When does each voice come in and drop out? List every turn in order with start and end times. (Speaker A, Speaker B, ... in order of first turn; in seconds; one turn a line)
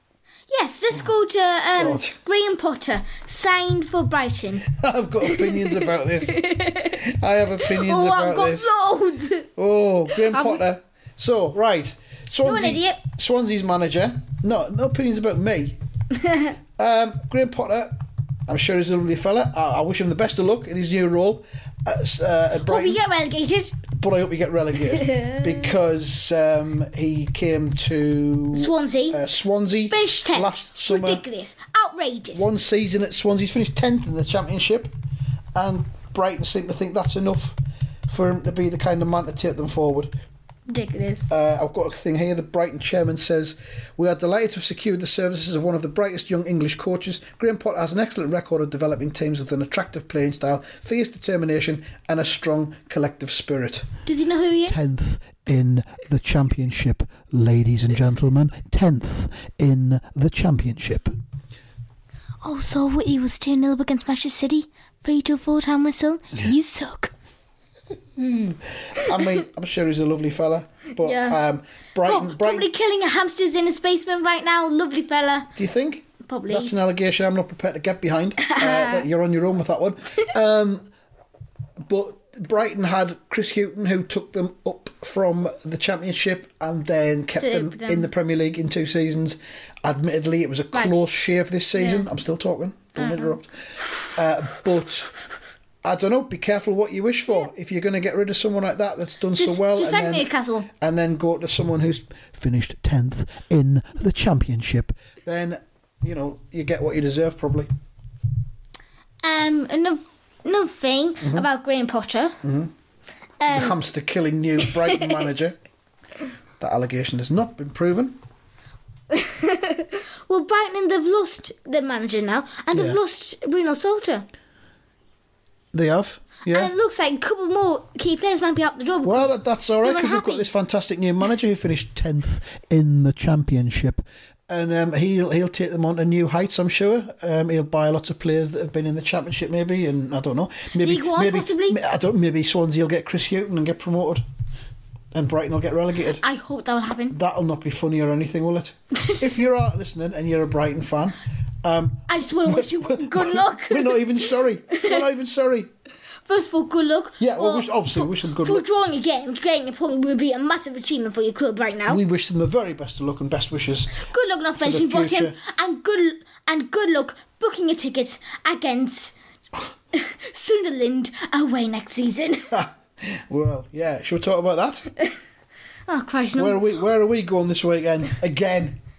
Speaker A: 0.5-4.7
Speaker B: 1.8-2.1
Speaker B: 4.6-8.7
Speaker A: 5.2-9.5
Speaker B: 9.6-15.8
Speaker A: 10.1-10.6
Speaker A: 12.4-13.0
Speaker A: 16.1-16.6
Speaker B: 16.8-23.0
Speaker A: 22.6-23.8
Speaker B: 23.9-31.2
Speaker A: 24.9-25.7
Speaker A: 28.5-29.2
Speaker A: 29.9-32.5
Speaker B: 32.3-34.9
Speaker B: 35.5-40.1
Speaker A: 40.7-41.3
Speaker B: 41.3-53.9
Speaker A: 54.0-54.8
Speaker B: 54.6-61.1
Speaker A: 62.4-67.1
Speaker B: 68.2-72.7
Speaker A: 69.0-69.4
Speaker A: 71.0-71.4
Speaker A: 72.0-75.5
Speaker B: 75.5-80.9
Speaker A: 76.2-76.8
Speaker A: 78.4-79.1
Speaker B: 81.8-93.5
Speaker A: 87.4-88.1
Speaker A: 91.8-92.1
Speaker A: 93.0-93.4
Speaker B: 94.1-95.1
Speaker B: 95.8-107.7
Speaker A: 99.4-100.7
Speaker A: 109.2-112.4
Speaker B: 111.2-111.5
Speaker B: 112.4-112.7
Speaker A: 113.4-113.8
Speaker B: 113.5-115.5
Speaker A: 114.6-115.1
Speaker B: 116.6-118.2
Speaker A: 119.1-124.2
Speaker B: 122.7-123.0
Speaker B: 125.7-126.7
Speaker A: 126.5-130.5
Speaker B: 129.0-144.2
Speaker A: 140.8-141.8
Speaker B: 145.1-146.2
Speaker A: 146.2-147.2
Speaker B: 147.1-155.7
Speaker A: 148.9-149.2
Speaker A: 152.1-155.0
Speaker A: 156.2-162.0
Speaker B: 157.2-158.6
Speaker B: 161.9-163.9
Speaker A: 163.9-169.2
Speaker B: 164.6-165.4
Speaker A: 169.9-172.5
Speaker B: 172.5-174.9
Speaker A: 175.9-176.6
Speaker B: 176.4-178.8